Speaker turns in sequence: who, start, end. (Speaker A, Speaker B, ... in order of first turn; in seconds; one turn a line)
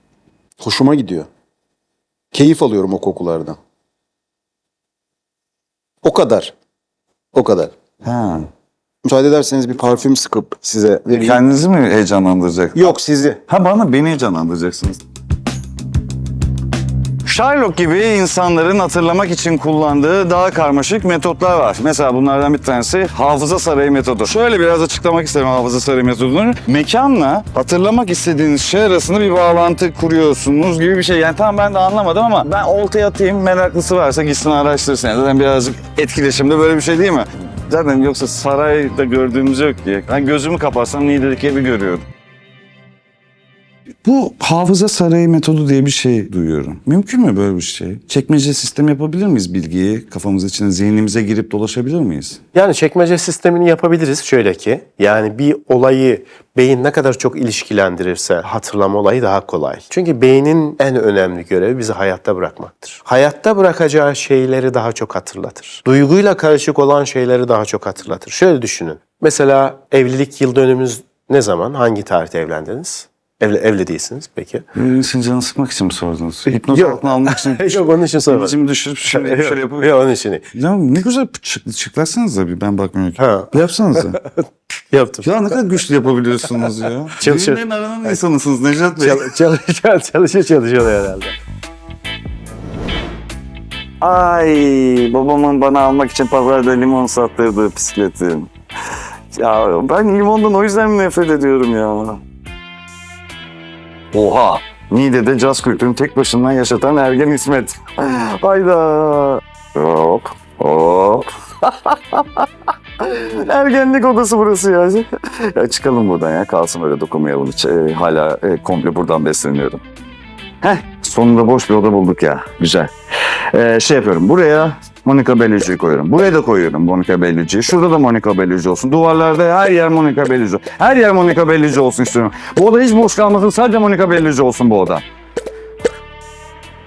Speaker A: 0.6-1.3
Speaker A: 2.3-3.6
Speaker A: 6.0-6.5
Speaker A: 7.3-7.7
Speaker B: 8.0-8.4
Speaker A: 9.0-11.4
Speaker B: 11.1-12.9
Speaker A: 12.7-13.4
Speaker B: 13.5-15.0
Speaker B: 17.2-42.0
Speaker B: 44.0-52.4
Speaker C: 52.5-74.6
Speaker B: 74.7-79.9
Speaker C: 76.5-80.4
Speaker B: 80.5-84.2
Speaker C: 83.2-85.6
Speaker B: 85.2-89.3
Speaker C: 87.2-88.1
Speaker C: 89.0-91.3
Speaker B: 94.0-98.5
Speaker B: 99.3-102.2
Speaker B: 104.1-112.5
Speaker B: 113.0-119.8
Speaker B: 120.6-135.0